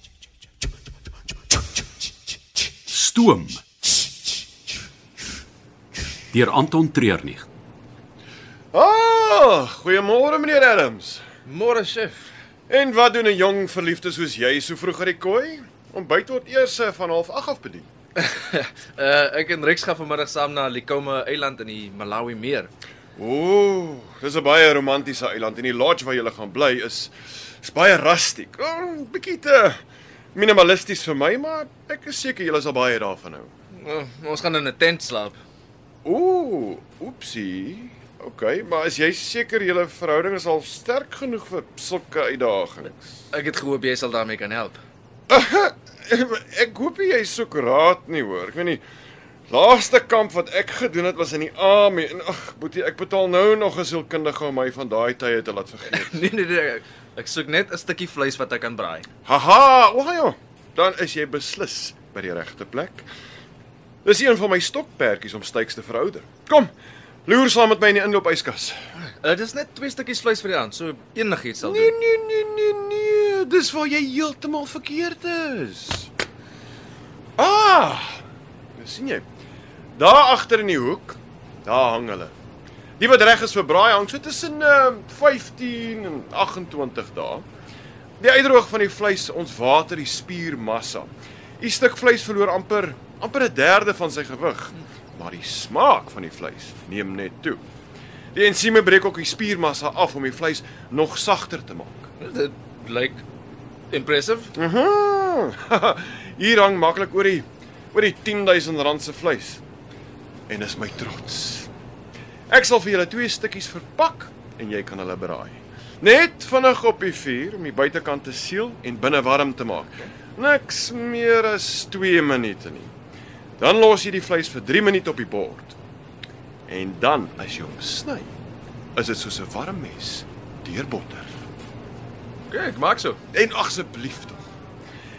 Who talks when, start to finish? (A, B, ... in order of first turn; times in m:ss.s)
0:02.9-0:03.6 A
0:06.3-0:07.4 A
0:08.7-0:11.2 B
0:11.5-0:12.2 C
0:12.7-0:17.9 B
0:18.2-0:22.7 C
0:23.2-0:29.8 B
0:30.3-0:33.5 B
0:33.7-0:35.4 C
0:36.0-0:43.2 B
0:43.3-0:44.8 C
0:45.3-0:48.8 B
0:49.5-0:56.2 B
0:55.9-0:59.0 C
0:59.2-1:03.0 B
1:04.0-1:06.7 B
1:07.2-1:08.7 B
1:09.2-1:11.9 C
1:11.6-1:16.1 B
1:17.4-1:18.2 B
1:18.8-1:19.2 B
1:19.9-1:22.3 B
1:23.0-1:27.4 B
1:28.2-1:37.6 B
1:38.3-1:42.1 B
1:42.2-1:43.2 C
1:43.9-1:44.5 C
1:44.6-1:49.6 B
1:50.5-1:51.7 B
1:52.5-2:02.9 B
2:03.6-2:05.8 B
2:06.7-2:08.3 B
2:09.0-2:11.3 B
2:12.5-2:13.2 C
2:13.3-2:14.4 B